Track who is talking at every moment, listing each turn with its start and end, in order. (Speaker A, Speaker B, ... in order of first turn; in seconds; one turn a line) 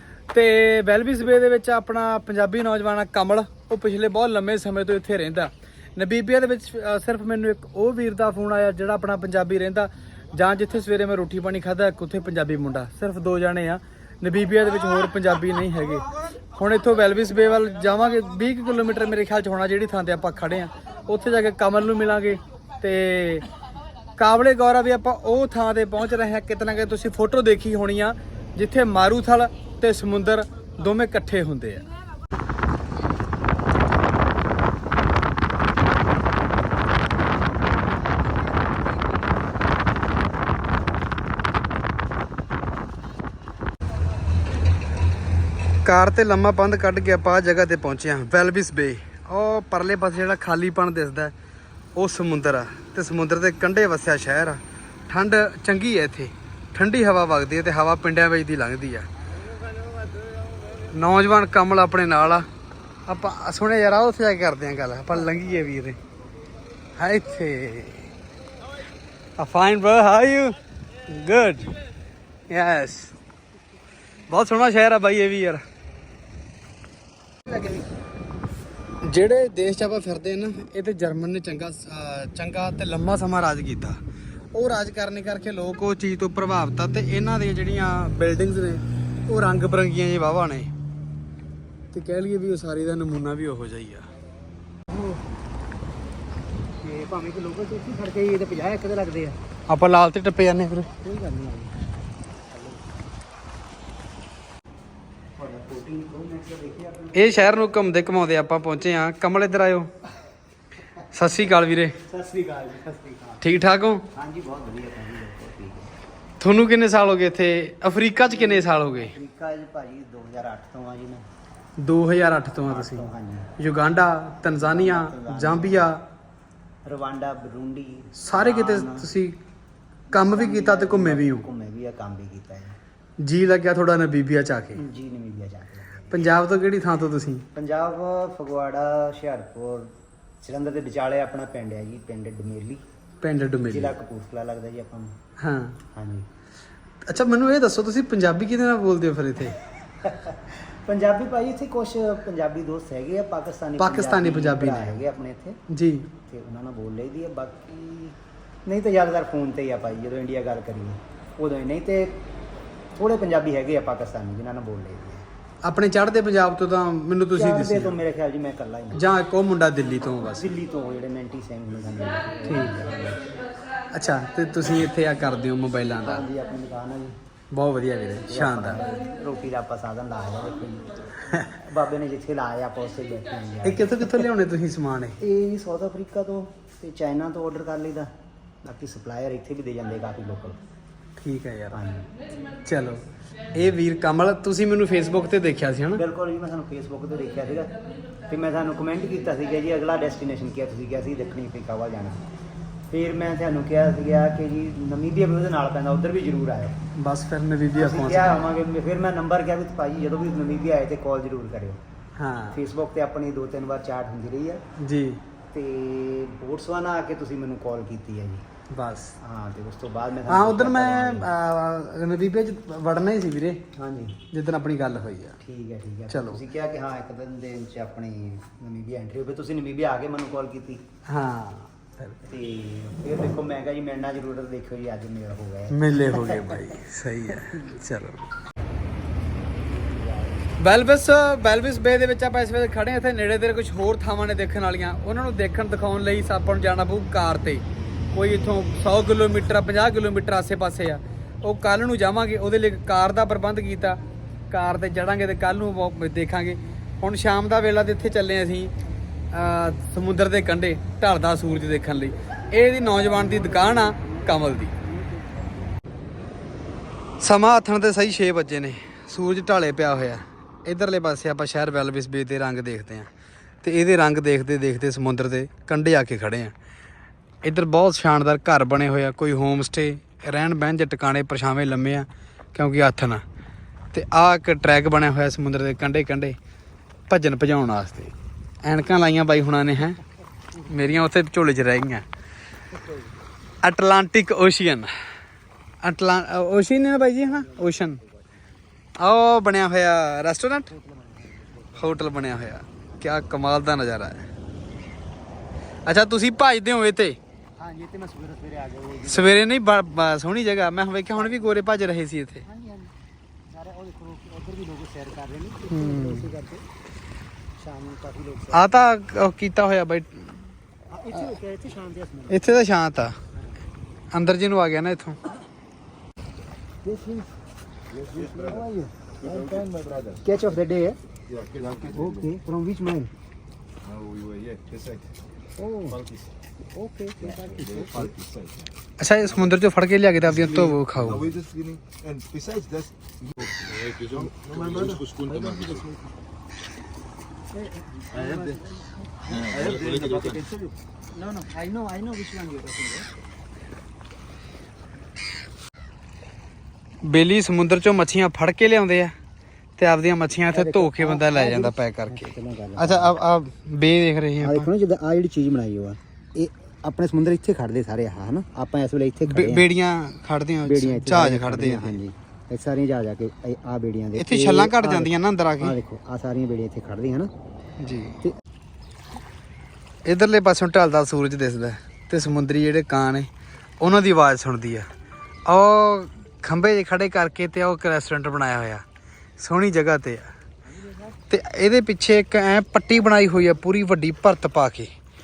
Speaker A: 0.3-23.5
Speaker A: 24.2-31.8
Speaker A: 45.8-51.3
Speaker A: 52.0-59.1
Speaker A: 60.9-62.5
Speaker A: 63.1-66.0
Speaker A: 67.0-68.1
Speaker A: 69.4-71.7
Speaker A: 72.5-73.1
Speaker A: 74.3-75.6
Speaker A: 79.0-84.0
Speaker A: 84.5-90.7
Speaker A: 91.9-94.1
Speaker B: 94.9-95.2
Speaker B: 96.8-99.4
Speaker A: 99.7-100.9
Speaker B: 101.0-101.7
Speaker B: 102.5-102.8
Speaker B: 105.4-107.6
Speaker A: 107.1-109.9
Speaker A: 111.1-112.0
Speaker B: 112.1-113.5
Speaker A: 113.4-114.1
Speaker B: 114.1-115.9
Speaker A: 116.4-119.2
Speaker B: 118.2-121.3
Speaker A: 121.8-126.0
Speaker B: 122.7-123.5
Speaker B: 124.4-125.9
Speaker B: 126.8-129.1
Speaker A: 128.2-129.4
Speaker A: 130.1-131.5
Speaker B: 130.1-132.8
Speaker A: 133.2-134.8
Speaker B: 134.7-136.3
Speaker A: 136.1-137.5
Speaker B: 137.5-142.8
Speaker A: 143.2-144.0
Speaker B: 143.6-145.2
Speaker A: 145.4-145.8
Speaker B: 145.9-146.3
Speaker A: 147.0-149.6
Speaker B: 150.0-155.6
Speaker A: 153.8-155.0
Speaker A: 155.7-156.1
Speaker B: 156.2-162.2
Speaker B: 162.9-165.3
Speaker A: 165.6-168.0
Speaker B: 167.3-169.1
Speaker A: 168.9-170.6
Speaker B: 170.3-173.2
Speaker A: 172.5-173.2
Speaker A: 173.9-176.3
Speaker B: 176.0-177.2
Speaker A: 177.5-178.9
Speaker B: 178.3-184.3
Speaker A: 183.6-185.2
Speaker B: 185.2-188.1
Speaker B: 188.6-190.6
Speaker A: 191.2-191.8
Speaker B: 191.7-192.1
Speaker A: 192.6-196.0
Speaker B: 195.9-202.2
Speaker B: 202.9-206.8
Speaker A: 207.0-208.4
Speaker B: 207.8-211.8
Speaker A: 212.2-212.6
Speaker B: 212.5-214.6
Speaker A: 214.8-215.2
Speaker B: 215.5-218.5
Speaker A: 218.7-219.2
Speaker B: 219.2-221.3
Speaker A: 220.3-223.7
Speaker B: 223.8-224.2
Speaker A: 224.3-225.4
Speaker B: 225.4-230.8
Speaker A: 226.1-226.4
Speaker A: 231.1-232.2
Speaker B: 232.2-236.7
Speaker A: 235.7-238.2
Speaker B: 237.4-237.7
Speaker B: 239.7-240.6
Speaker A: 240.6-258.7
Speaker A: 259.3-264.8
Speaker B: 264.8-265.7
Speaker A: 267.2-273.1
Speaker A: 273.6-276.5
Speaker A: 277.4-283.2
Speaker A: 283.9-286.4
Speaker A: 287.1-288.1
Speaker A: 288.6-290.0
Speaker A: 290.7-292.1
Speaker B: 292.7-293.1
Speaker A: 293.6-294.9
Speaker A: 295.8-298.0
Speaker B: 297.2-298.7
Speaker A: 299.0-300.7
Speaker B: 300.7-302.2
Speaker A: 301.8-304.3
Speaker A: 305.9-307.2
Speaker B: 307.6-309.4
Speaker A: 309.1-312.4
Speaker B: 311.1-311.7
Speaker B: 312.4-312.9
Speaker B: 313.5-316.6
Speaker A: 315.7-316.3
Speaker B: 317.6-318.8
Speaker A: 318.5-320.4
Speaker B: 320.9-322.6
Speaker A: 322.3-323.2
Speaker A: 324.1-325.2
Speaker B: 326.8-327.3
Speaker C: 327.9-328.7
Speaker B: 328.1-329.7
Speaker C: 329.2-330.3
Speaker B: 330.2-331.0
Speaker C: 331.3-332.3
Speaker B: 331.8-333.1
Speaker C: 333.8-335.1
Speaker B: 335.6-336.0
Speaker C: 335.9-336.3
Speaker B: 336.7-338.1
Speaker C: 337.2-338.7
Speaker A: 339.0-341.4
Speaker C: 340.3-346.0
Speaker B: 344.1-345.9
Speaker B: 347.5-350.5
Speaker C: 348.1-348.6
Speaker C: 349.3-350.7
Speaker B: 351.1-353.1
Speaker A: 357.0-359.1
Speaker A: 359.8-364.7
Speaker B: 360.5-363.2
Speaker B: 364.4-369.7
Speaker A: 369.3-372.0
Speaker B: 370.6-377.3
Speaker A: 374.2-375.8
Speaker A: 377.8-378.2
Speaker A: 380.1-383.3
Speaker A: 383.8-384.9
Speaker A: 385.5-388.8
Speaker A: 389.4-390.3
Speaker B: 390.6-391.2
Speaker A: 391.3-394.9